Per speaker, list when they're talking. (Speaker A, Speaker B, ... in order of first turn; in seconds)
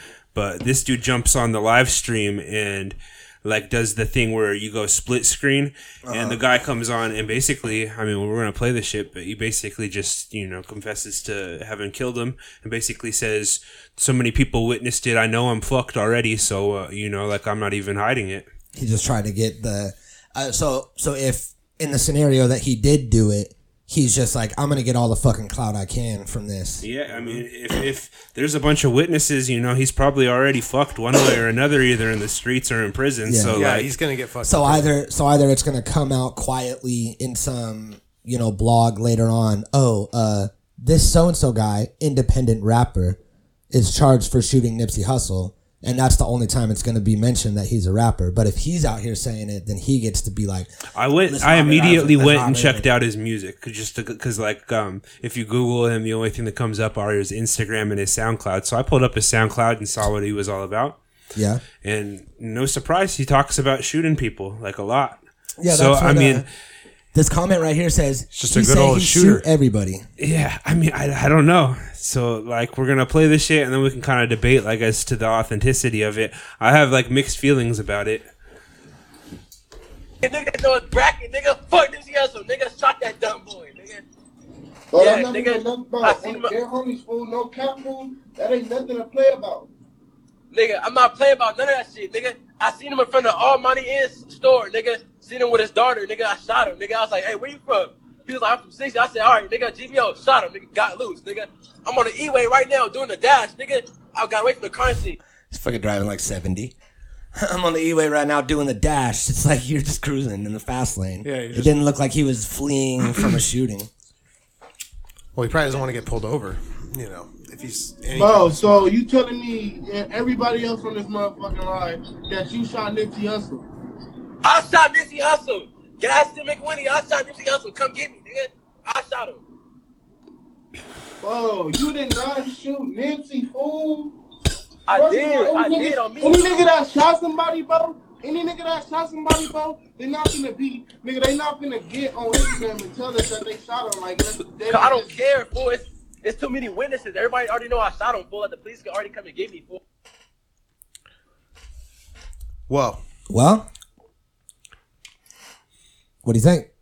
Speaker A: 0.3-18.5, 26.8-34.0, 51.0-61.0, 61.7-66.5, 70.2-78.3
Speaker B: 6.1-6.4, 18.7-26.9, 33.3-33.6, 34.5-43.2, 43.7-50.7, 51.3-52.9, 61.4-61.6, 65.6-66.5, 67.1-70.1, 105.5-106.7, 107.3-113.9, 153.3-153.7, 156.2-156.7
Speaker C: 33.5-34.9, 68.3-69.5, 111.2-111.7, 115.4-118.9, 152.7-153.0
Speaker D: 80.2-84.0, 85.0-86.5, 90.5-105.2, 124.4-129.4, 134.9-136.5, 144.7-149.8
Speaker E: 84.9-89.7, 118.2-123.7, 131.2-134.2, 134.9-145.2